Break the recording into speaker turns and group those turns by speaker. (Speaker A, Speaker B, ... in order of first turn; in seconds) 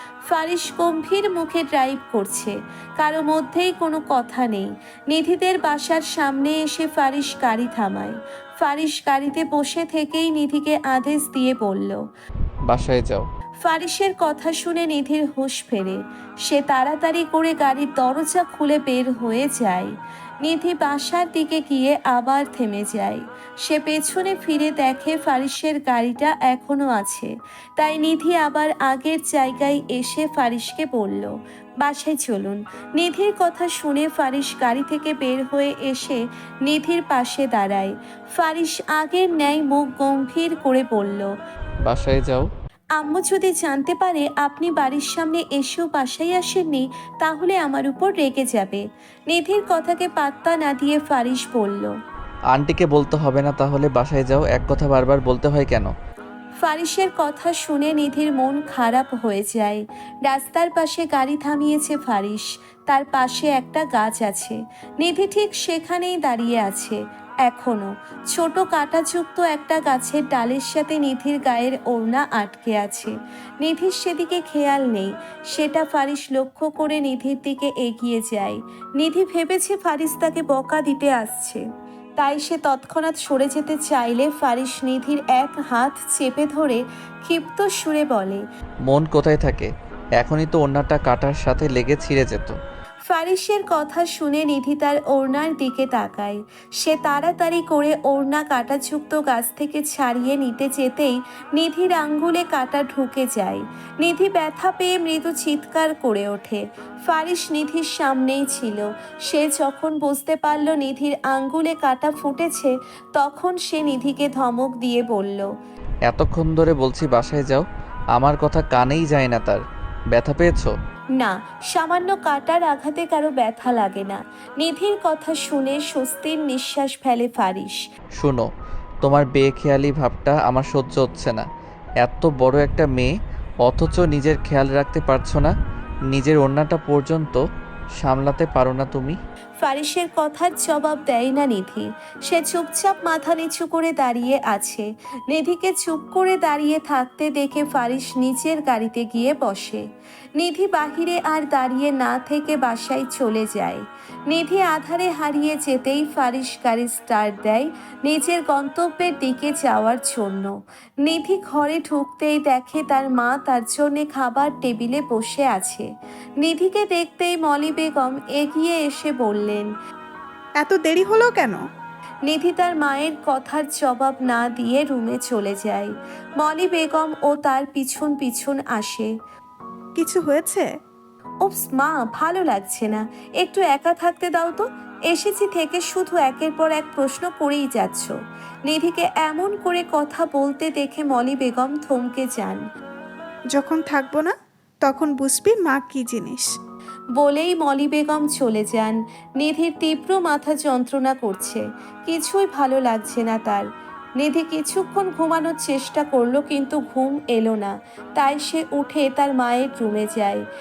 Speaker A: 0.3-12.0, 13.6-19.9, 20.4-41.3, 43.0-51.9, 56.6-81.6, 82.2-88.4, 93.1-115.5, 121.2-127.8, 139.6-149.8, 150.4-160.5, 161.0-165.8, 166.4-169.7, 172.3-179.1, 181.4-188.1, 188.7-192.6, 197.2-203.6, 204.2-210.4
Speaker B: 12.7-13.2, 41.8-42.5, 52.5-55.9, 88.8-92.5, 116.0-119.6, 120.1-120.7, 128.2-128.4, 129.0-131.4, 132.0-135.5, 136.1-137.4, 138.0-139.2
Speaker C: 170.6-171.6, 180.0-180.6, 193.6-194.3, 194.9-196.5